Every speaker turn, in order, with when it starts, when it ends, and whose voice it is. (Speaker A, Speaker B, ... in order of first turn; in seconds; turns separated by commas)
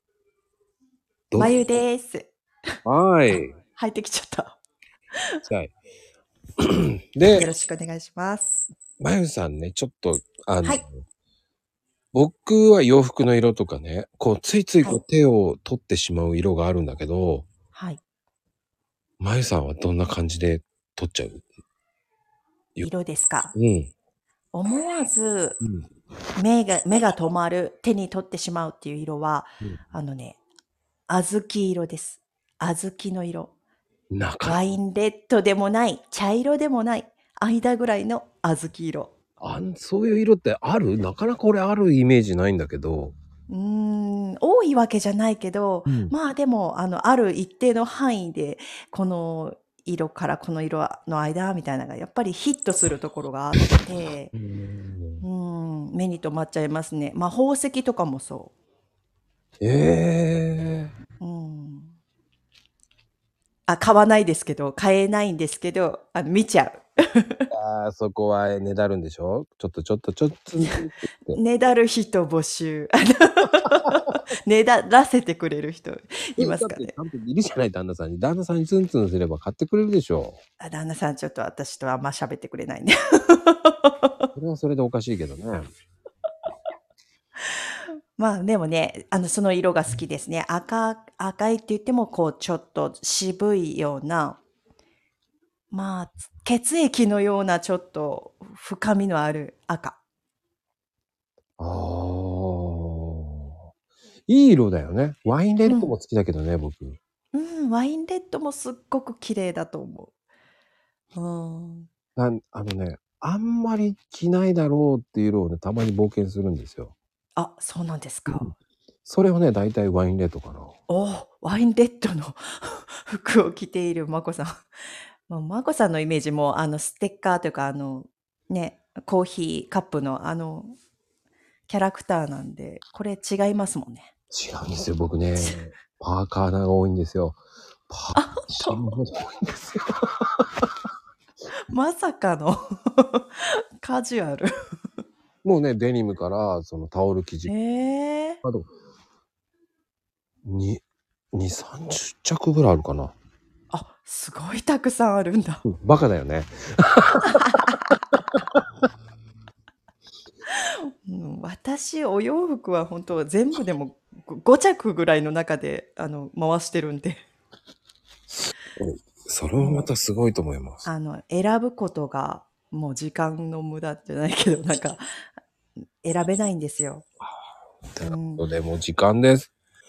Speaker A: 1.3-1.8, Speaker B: 1.4-2.3, Speaker A: 2.9-3.6, Speaker B: 3.3-4.6, Speaker A: 5.5-5.7, Speaker A: 6.6-7.5, Speaker B: 7.3-8.7, Speaker A: 9.0-10.9, Speaker A: 12.1-17.5, Speaker B: 17.7-18.0, Speaker A: 19.2-21.5, Speaker B: 22.8-23.5, Speaker A: 23.6-23.9, Speaker B: 24.5-25.6, Speaker B: 26.4-30.4, Speaker B: 31.1-33.5, Speaker A: 34.1-34.7, Speaker B: 34.4-39.1, Speaker A: 39.4-43.1, Speaker B: 43.5-54.3, Speaker A: 45.9-46.1, Speaker A: 54.3-55.2, Speaker B: 55.2-58.5, Speaker A: 59.6-60.9, Speaker B: 61.2-61.9, Speaker B: 63.7-67.5, Speaker A: 67.5-71.4, Speaker B: 71.3-76.9, Speaker A: 76.4-80.4, Speaker B: 80.6-84.3, Speaker A: 84.3-85.7, Speaker B: 87.6-94.4, Speaker B: 95.7-100.0, Speaker A: 101.6-103.6, Speaker A: 104.3-107.0, Speaker B: 105.7-105.9, Speaker B: 107.3-110.1, Speaker B: 111.2-111.9, Speaker A: 112.2-116.9, Speaker B: 117.4-118.5, Speaker A: 119.0-120.8, Speaker B: 120.9-124.6, Speaker B: 125.3-130.7, Speaker B: 131.7-134.1, Speaker A: 134.3-140.4, Speaker B: 138.2-138.8, Speaker B: 141.7-144.5, Speaker A: 145.4-147.5, Speaker B: 147.5-148.4, Speaker A: 148.4-148.7, Speaker A: 150.4-150.8, Speaker A: 151.3-153.2, Speaker B: 153.7-155.6, Speaker A: 155.7-157.5, Speaker B: 157.4-157.8, Speaker B: 160.5-167.2, Speaker A: 168.8-170.9, Speaker B: 169.6-169.9, Speaker B: 170.9-175.0, Speaker B: 176.0-177.1, Speaker A: 177.9-179.5, Speaker B: 178.0-178.4